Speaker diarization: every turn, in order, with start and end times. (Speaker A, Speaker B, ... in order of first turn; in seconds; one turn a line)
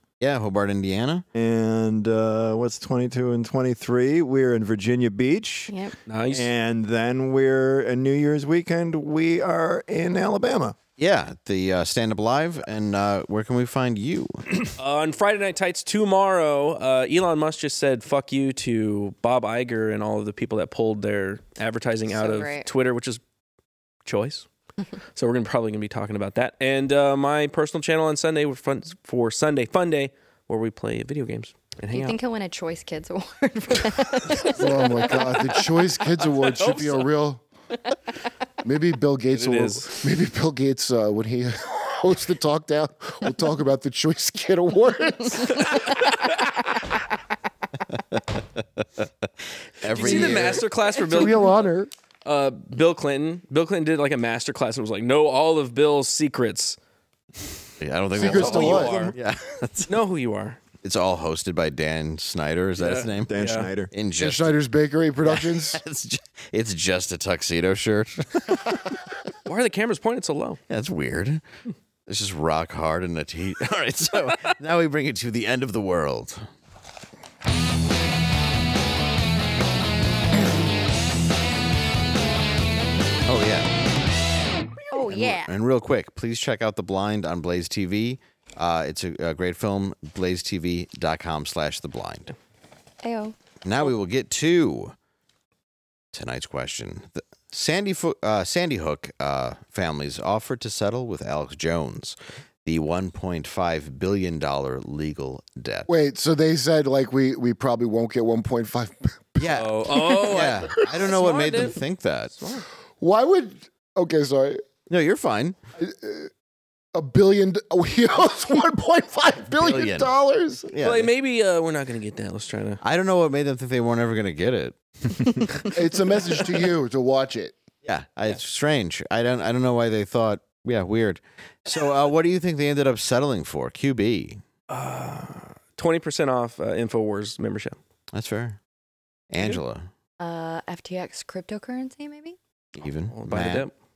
Speaker A: 0.2-1.2
Speaker B: 1.3-5.7
Speaker C: 5.7-5.9
Speaker D: 6.1-6.5
Speaker B: 6.3-10.8
Speaker A: 11.0-14.5
Speaker D: 14.8-23.2
Speaker C: 22.1-22.7
Speaker D: 24.0-24.5
Speaker D: 25.1-32.1
Speaker C: 31.9-35.5
Speaker E: 34.5-37.5
Speaker D: 36.4-37.1
Speaker E: 38.6-45.9
Speaker D: 39.3-40.0
Speaker D: 45.6-46.4
Speaker A: 49.8-50.6
Speaker E: 49.9-51.9
Speaker D: 49.9-51.5
Speaker D: 52.2-56.8
Speaker A: 57.8-60.0
Speaker E: 58.1-59.1
Speaker D: 58.2-59.1
Speaker D: 59.9-60.6
Speaker A: 60.8-63.4
Speaker D: 62.8-63.7
Speaker B: 63.3-63.9
Speaker A: 63.9-64.6
Speaker E: 64.2-65.8
Speaker A: 65.2-68.8
Speaker D: 69.5-70.6
Speaker A: 70.7-71.4
Speaker A: 72.1-76.4
Speaker A: 83.3-83.7
Speaker C: 84.9-85.5
Speaker A: 85.0-92.3
Speaker C: 93.0-93.3
Speaker A: 93.6-94.9
Speaker A: 96.1-105.9
Speaker E: 105.9-110.4
Speaker A: 109.4-112.3
Speaker D: 109.5-111.8
Speaker D: 112.3-112.6
Speaker E: 113.0-114.6
Speaker A: 114.9-115.6
Speaker E: 115.8-116.3
Speaker E: 116.9-120.7
Speaker A: 119.6-120.1
Speaker A: 120.7-121.1
Speaker D: 120.8-122.8
Speaker A: 122.8-124.8
Speaker E: 125.6-127.5
Speaker A: 127.8-134.4
Speaker D: 134.7-137.8
Speaker A: 138.1-138.6
Speaker A: 139.3-139.9
Speaker C: 140.2-142.4
Speaker A: 142.7-143.7
Speaker D: 143.1-143.7